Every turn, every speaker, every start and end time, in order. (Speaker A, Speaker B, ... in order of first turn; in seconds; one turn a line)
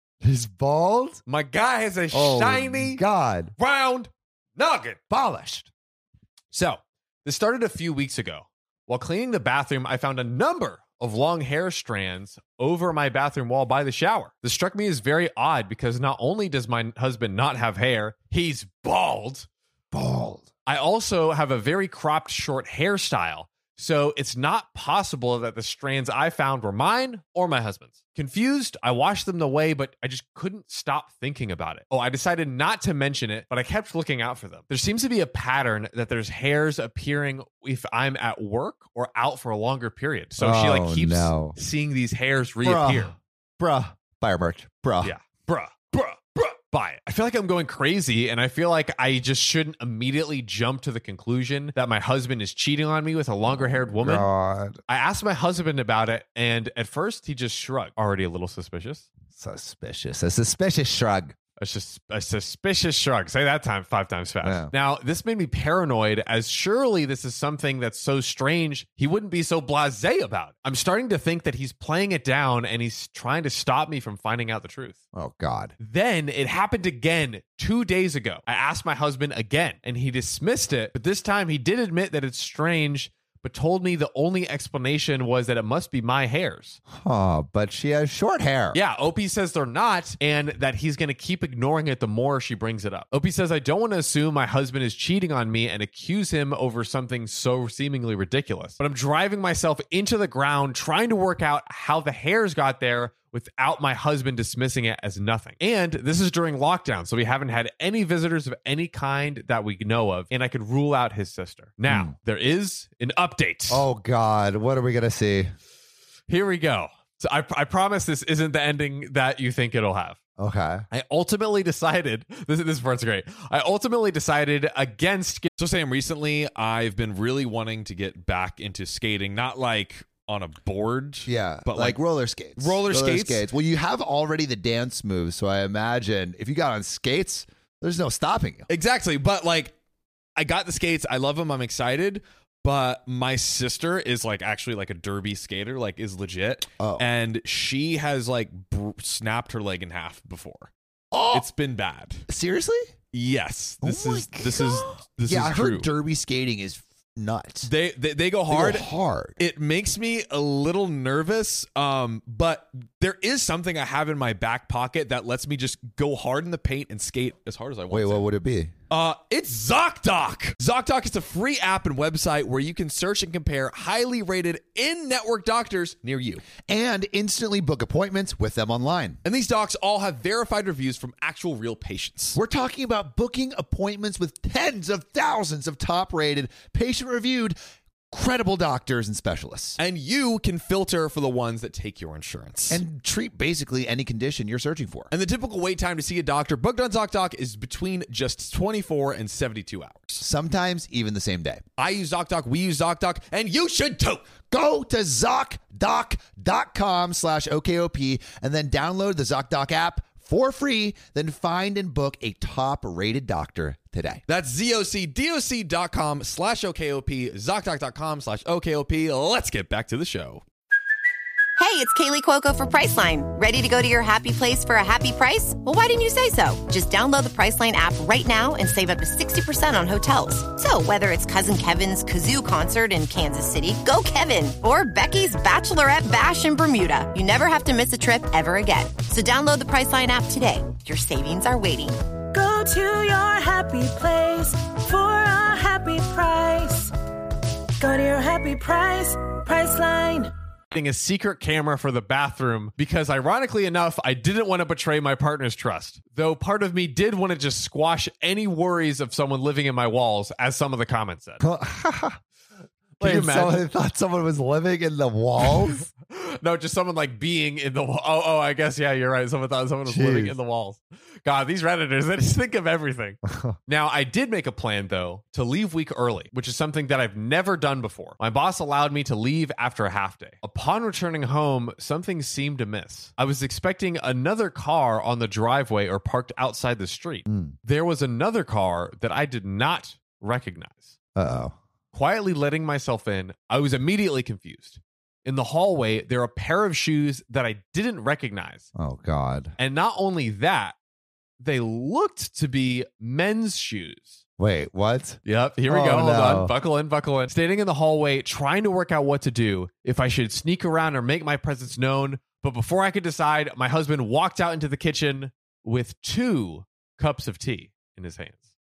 Speaker A: 0.2-1.2
Speaker B: 1.3-3.0
Speaker A: 2.1-3.5
Speaker B: 3.6-5.0
Speaker A: 5.1-5.7
Speaker B: 6.5-19.5
Speaker A: 19.9-20.5
Speaker B: 20.6-43.1
Speaker A: 40.4-41.5
Speaker A: 42.6-45.1
Speaker B: 45.0-54.2
Speaker A: 53.5-54.8
Speaker B: 54.9-59.0
Speaker A: 59.3-61.3
Speaker B: 61.6-75.0
Speaker A: 64.4-64.7
Speaker A: 75.1-75.7
Speaker B: 75.8-86.8
Speaker A: 86.9-88.8
Speaker B: 88.7-113.8
Speaker A: 111.9-112.1
Speaker A: 113.7-115.5
Speaker B: 116.3-120.2
Speaker A: 120.4-120.8
Speaker B: 120.9-125.5
Speaker C: 125.6-132.0
Speaker A: 131.3-138.7
Speaker C: 132.6-133.4
Speaker C: 138.7-139.7
Speaker C: 140.4-150.7
Speaker A: 146.8-147.1
Speaker A: 151.1-151.5
Speaker C: 151.3-152.2
Speaker A: 152.3-152.8
Speaker C: 153.1-155.9
Speaker A: 153.8-157.7
Speaker C: 157.6-158.9
Speaker A: 158.5-159.4
Speaker C: 159.4-168.2
Speaker A: 167.9-168.7
Speaker C: 168.9-176.4
Speaker A: 176.6-179.2
Speaker C: 179.2-182.4
Speaker A: 182.3-187.6
Speaker A: 188.1-189.8
Speaker C: 189.8-192.8
Speaker A: 192.7-195.1
Speaker C: 195.1-200.2
Speaker A: 200.2-201.6
Speaker C: 201.8-204.2
Speaker A: 204.5-214.2
Speaker C: 214.3-220.4
Speaker D: 221.6-242.0
Speaker E: 242.3-246.9
Speaker E: 247.8-250.3
Speaker B: 250.7-261.4
Speaker A: 261.4-262.2
Speaker B: 263.0-263.6
Speaker A: 263.0-265.9
Speaker B: 266.1-290.9
Speaker A: 269.8-270.4
Speaker A: 273.2-273.6
Speaker A: 287.3-287.5
Speaker A: 291.1-291.5
Speaker B: 291.9-298.6
Speaker A: 298.8-299.5
Speaker B: 299.6-300.7
Speaker B: 301.4-304.2
Speaker A: 304.4-306.5
Speaker B: 305.2-318.4